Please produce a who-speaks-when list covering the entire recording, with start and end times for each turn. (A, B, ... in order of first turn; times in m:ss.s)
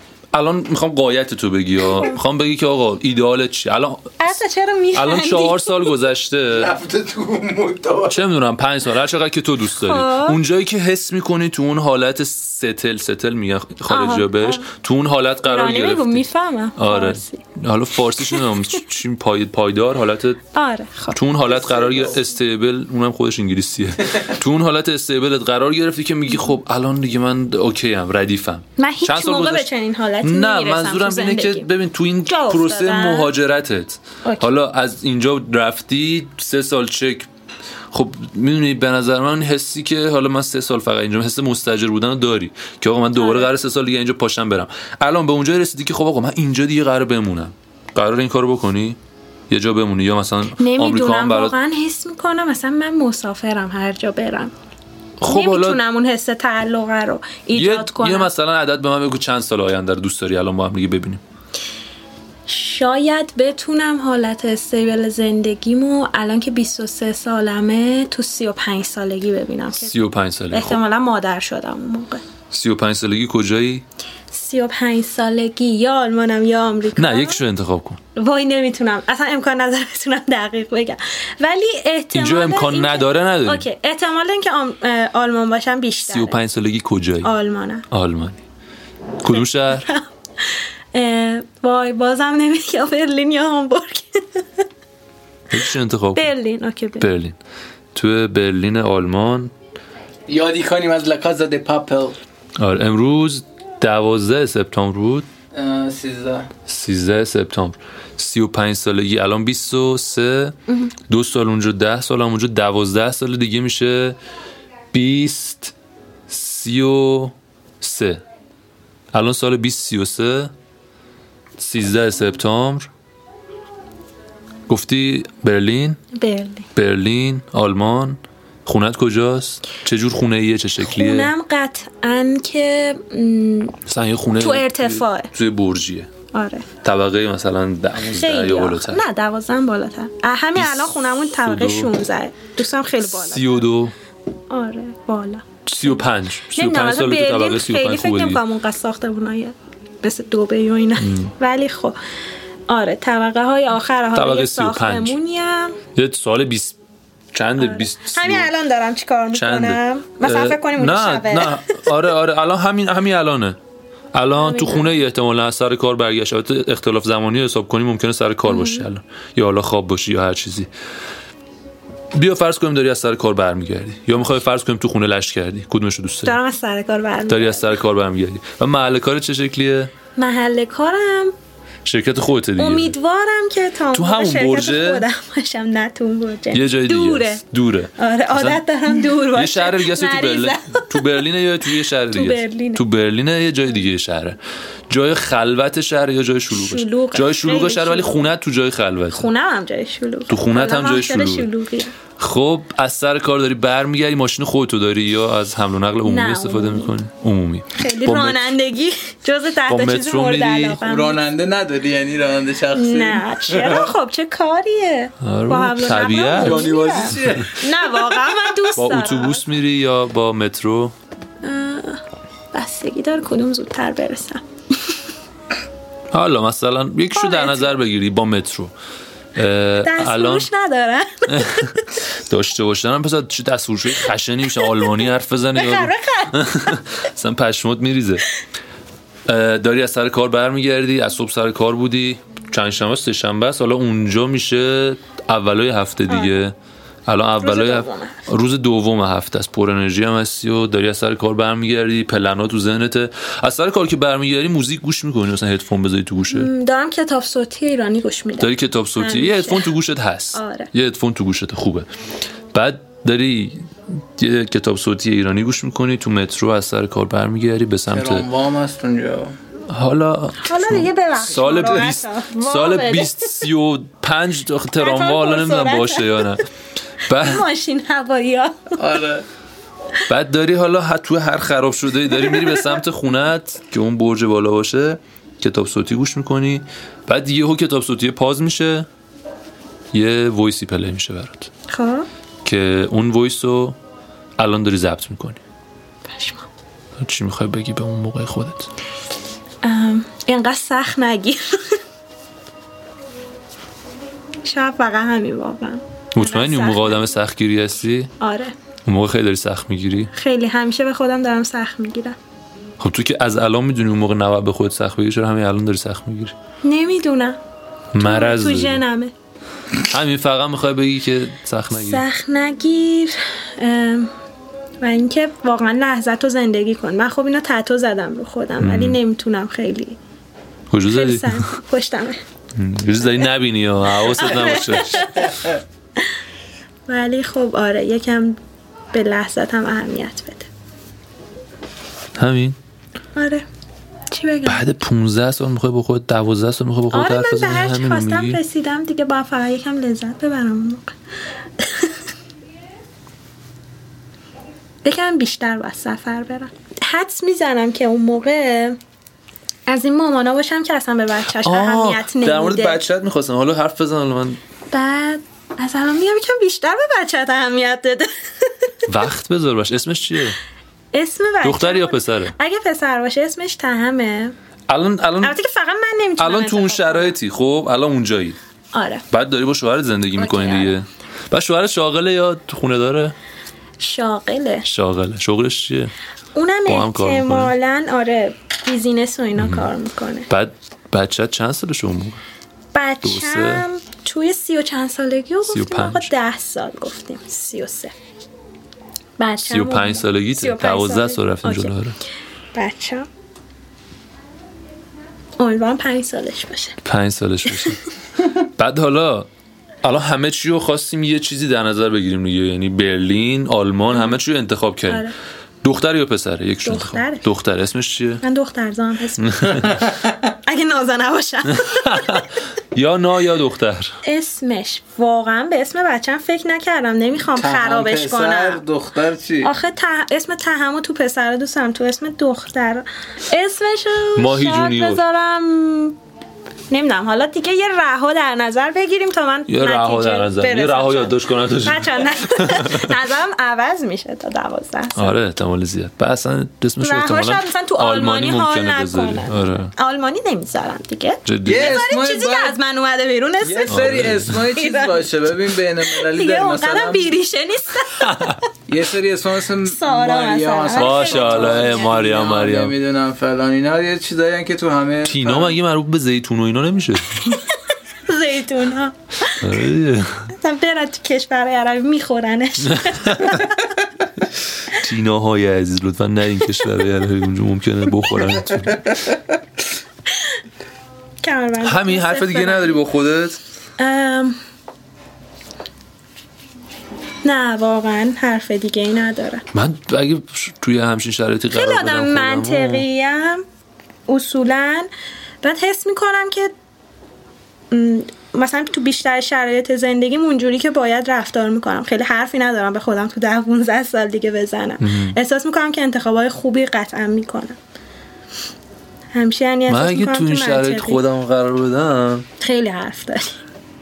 0:00.3-0:04.4 A
0:04.2-0:05.9 B
0:04.9-0:06.7 A
0:06.5-0:08.2 C
0:08.1-0:20.4 A
0:09.8-0:10.4 B
0:13.9-0:14.6 B
0:15.4-0:17.4 B
0:18.2-0:18.8 B
0:20.5-0:21.2 B
0:21.1-0:29.7 A
0:28.8-0:31.7 B
0:30.2-0:37.3 A
0:32.3-0:33.3 B
0:37.9-0:49.0 A
0:43.2-0:43.5 B
0:49.5-0:51.5 A
0:50.6-0:54.5 B
0:55.2-0:55.8 A
0:55.2-0:58.3 B
0:57.5-1:01.2 A
1:02.5-1:09.9 B
1:09.8-1:10.8 A
1:10.5-1:12.2 B
1:12.5-1:13.8 A
1:14.3-1:17.4 B
1:17.0-1:18.0 A
1:18.1-1:26.4 B
1:22.1-1:23.6 A
1:26.0-1:27.3 A
1:27.2-1:27.8 B
1:27.9-1:28.4 A
1:29.2-1:29.9 A
1:29.7-1:34.4 B
1:35.5-1:36.3 A
1:36.1-1:37.1 B
1:37.0-1:37.4 A
1:37.9-1:39.5 A
1:40.3-1:42.2 C
1:42.6-1:45.3 A
1:45.5-1:46.5 C
1:46.7-1:50.6 A
1:51.1-1:54.2 A
1:54.9-1:55.7 A
1:56.3-1:58.2 A
1:59.1-2:00.5 A
2:01.6-2:02.9 A
2:04.7-2:06.0 A
2:06.1-2:06.7 B
2:06.8-2:11.3 A
2:10.8-2:13.8 B
2:13.8-2:16.1 A
2:14.4-2:15.3 B
2:16.3-2:16.7 B
2:16.8-2:19.0 A
2:18.1-2:23.6 B
2:20.6-2:21.9 A
2:23.0-2:23.9 A
2:24.5-2:26.0 B
2:25.6-2:28.4 A
2:26.5-2:32.0 B
2:31.0-2:31.3 A
2:32.7-2:35.8 B
2:34.1-2:35.2 A
2:36.0-2:36.8 A
2:37.3-2:38.5 A
2:37.6-2:41.9 B
2:39.3-2:43.6 A
2:44.1-2:50.7 A
2:44.4-2:45.0 B
2:48.4-2:48.9 B
2:52.1-2:56.4 A
2:56.2-2:57.7 B
2:57.3-2:59.9 A
3:00.2-3:01.3 B
3:01.8-3:02.9 A
3:02.6-3:07.4 B
3:03.9-3:05.0 A
3:06.5-3:08.6 A
3:08.0-3:12.8 B
3:09.2-3:14.4 A
3:14.9-3:19.2 A
3:16.5-3:18.3 B
3:19.1-3:21.9 B
3:20.3-3:21.5 A
3:22.2-3:28.5 A
3:26.0-3:26.9 B
3:27.7-3:31.2 B
3:29.7-3:30.8 A
3:30.8-3:33.9 C
3:32.7-3:39.4 B
3:35.2-3:37.4 A
3:36.4-3:38.2 C
3:38.8-3:40.9 A
3:41.4-3:42.0 B
3:42.5-3:44.9 B
3:46.1-3:48.7 A
3:47.1-3:47.7 B
3:49.4-3:50.5 A
3:49.8-3:52.0 B
3:51.3-3:58.2 A
3:54.6-3:54.9 B
3:55.6-3:56.8 B
3:59.3-4:06.5 A
4:07.1-4:16.5 A
4:07.4-4:08.3 B
4:16.3-4:19.8 B
4:18.4-4:21.9 A
4:20.3-4:20.7 B
4:22.5-4:28.3 A
4:27.9-4:29.3 C
4:29.7-4:36.4 A
4:30.4-4:33.4 B
4:34.8-4:36.4 B
4:37.1-4:37.4 A
4:37.1-4:38.8 B
4:38.8-4:39.2 C
4:40.1-4:48.9 A
4:49.9-4:51.5 A
4:51.7-4:52.0 B
4:52.4-4:53.8 A
4:54.4-4:55.4 A
4:56.1-4:56.4 B
4:57.0-4:58.7 A
4:59.6-5:01.8 B
5:04.4-5:07.2 B
5:06.1-5:08.1 A
5:08.2-5:08.5 B
5:08.8-5:10.1 A
5:10.1-5:12.2 B
5:12.8-5:16.3 A
5:16.6-5:17.4 B
5:17.9-5:18.8 A
5:18.0-5:19.1 B
5:19.9-5:22.0 A
5:21.7-5:24.1 B
5:24.8-5:30.0 B
5:28.6-5:29.0 A
5:30.7-5:31.5 A
5:30.9-5:32.2 B
5:32.5-5:35.3 A
5:34.2-5:35.3 B
5:36.9-5:38.4 B
5:38.9-5:40.5 B
5:42.2-5:42.6 A
5:43.2-5:43.4 B
5:44.1-5:44.6 B
5:44.4-5:48.4 A
5:46.9-5:50.9 B
5:51.6-5:51.9 B
5:54.8-5:58.8 B
5:59.7-6:02.8 B
6:01.4-6:04.4 A
6:04.7-6:08.7 B
6:08.9-6:10.4 A
6:10.9-6:14.3 B
6:11.4-6:12.3 A
6:14.7-6:15.3 A
6:15.2-6:17.2 B
6:16.2-6:18.4 A
6:18.7-6:19.0 B
6:19.1-6:23.1 A
6:20.2-6:20.7 B
6:23.8-6:24.6 B
6:24.6-6:25.9 A
6:26.3-6:30.3 B
6:26.6-6:27.5 A
6:29.4-6:29.7 A
6:30.3-6:32.2 A
6:32.7-6:37.9 B
6:33.0-6:33.6 A
6:35.5-6:36.1 A
6:39.2-6:41.7 B
6:39.5-6:42.0 A
6:42.5-6:43.1 B
6:45.4-6:46.8 B
6:46.8-6:47.8 A
6:48.4-6:49.3 A
6:49.8-6:55.1 A
6:53.9-6:54.2 B
6:54.9-6:55.1 B
6:55.6-6:58.2 A
6:56.6-6:57.2 B
6:58.2-7:02.3 B
6:59.2-6:59.7 A
7:01.5-7:03.9 A
7:04.0-7:08.6 B
7:07.3-7:09.5 C
7:09.4-7:16.0 B
7:14.1-7:15.0 A
7:16.7-7:25.2 B
7:19.5-7:22.9 A
7:24.9-7:29.7 A
7:26.8-7:35.2 B
7:31.2-7:31.8 A
7:31.4-7:32.6 C
7:33.4-7:37.1 C
7:33.7-7:34.4 A
7:35.8-7:38.4 B
7:38.0-7:38.4 A
7:38.7-7:45.6 C
7:39.6-7:42.0 B
7:40.7-7:42.7 A
7:45.0-7:47.4 A
7:47.2-7:49.5 B
7:49.4-7:50.3 A
7:50.4-7:53.8 B
7:52.7-7:53.4 A
7:54.7-7:59.1 A
8:01.2-8:02.8 B
8:01.6-8:03.4 A
8:03.8-8:04.4 B
8:07.2-8:09.4 B
8:09.5-8:12.8 A
8:11.5-8:13.4 B
8:14.1-8:14.9 B
8:15.4-8:16.5 B
8:17.7-8:27.6 B
8:24.8-8:25.2 A
8:29.1-8:31.0 B
8:29.7-8:32.2 A
8:32.4-8:33.4 B